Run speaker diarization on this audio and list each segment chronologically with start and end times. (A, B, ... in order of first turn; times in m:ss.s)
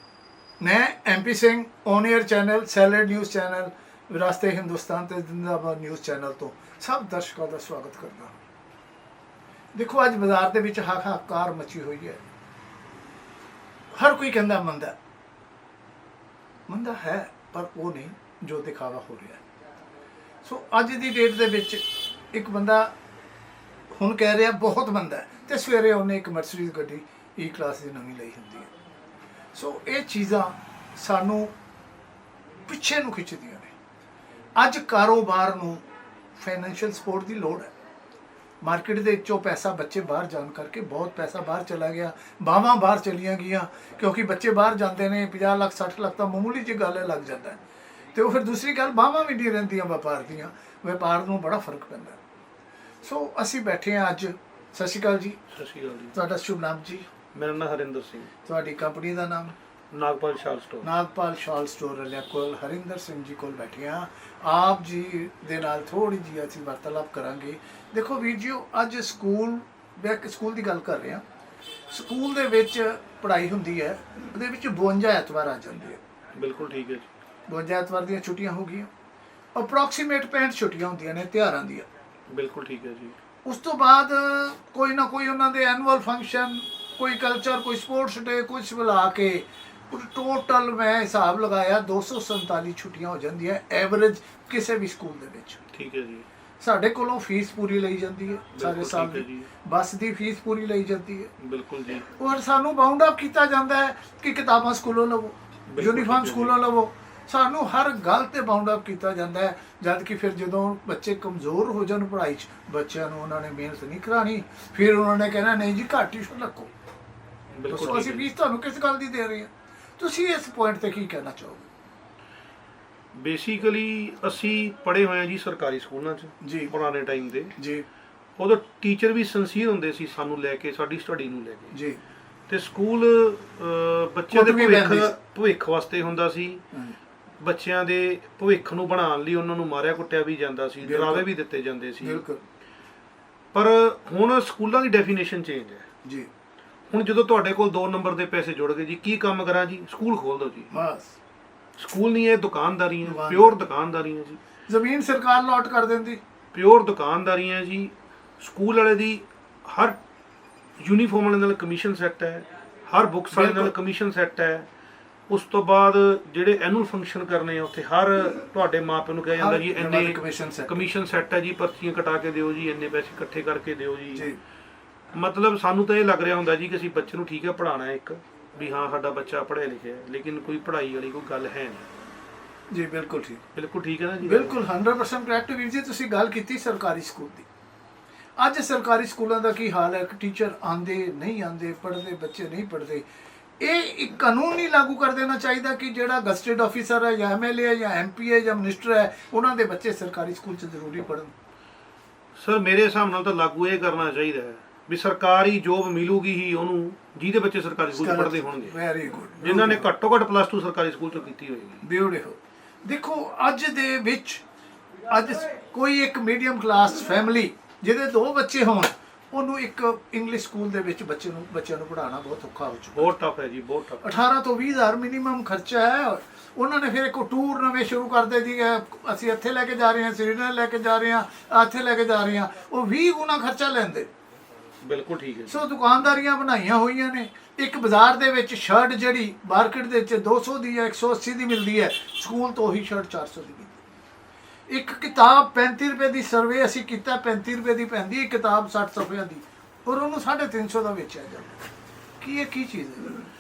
0:00.6-0:08.4 A
0:09.7-0:12.2 A
0:13.9-0:15.0 A
0:16.7-0:19.4 A
0:20.4-0:22.9 A
0:23.9-0:28.7 A
0:29.5-0:31.5 A
0:32.7-0:33.7 A
0:34.6-0:35.8 A
0:36.4-0:37.7 A
0:38.6-0:47.6 A
0:48.2-0:52.2 A
0:53.0-0:55.4 A
0:55.5-0:56.2 B
0:56.1-0:57.1 A
0:57.3-0:58.3 B
0:58.4-0:59.6 A
0:59.9-1:00.9 B
1:00.8-1:11.2 A
1:11.9-1:16.0 A
1:16.4-1:17.1 B
1:17.5-1:18.9 A
1:19.6-1:21.9 A
1:22.3-1:23.2 B
1:23.5-1:35.6 A
1:35.7-1:36.3 B
1:36.6-1:41.3 A
1:38.5-1:39.5 B
1:41.4-1:42.1 B
1:42.0-1:56.7 A
1:45.7-1:46.6 B
1:57.6-1:58.3 B
1:57.7-2:01.7 A
2:03.2-2:07.6 B
2:06.4-2:06.7 A
2:07.6-2:07.9 A
2:08.4-2:11.8 B
2:11.7-2:12.0 A
2:12.5-2:16.6 B
2:14.3-2:15.1 A
2:17.4-2:22.2 B
2:20.8-2:21.3 A
2:22.0-2:22.4 A
2:23.5-2:25.8 B
2:26.0-2:26.3 A
2:26.9-2:30.7 B
2:30.7-2:31.2 A
2:31.8-2:34.4 B
2:33.0-2:33.6 A
2:34.7-2:36.2 A
2:36.5-2:40.0 B
2:40.8-2:44.7 B
2:43.3-2:43.7 A
2:45.3-2:54.3 B
2:49.4-2:50.9 A
2:54.1-2:54.4 A
2:55.1-3:01.9 B
3:02.7-3:03.4 A
3:03.6-3:04.6 B
3:04.2-3:07.5 A
3:08.4-3:13.1 A
3:13.6-3:21.3 A
3:22.4-3:28.8 B
3:27.9-3:29.9 A
3:29.4-3:31.8 B
3:31.8-3:34.4 A
3:35.1-3:43.1 A
3:43.0-3:44.1 B
3:44.0-3:54.1 A
3:54.8-3:55.6 B
3:55.5-4:03.8 A
4:04.7-4:11.6 A
4:12.2-4:13.2 A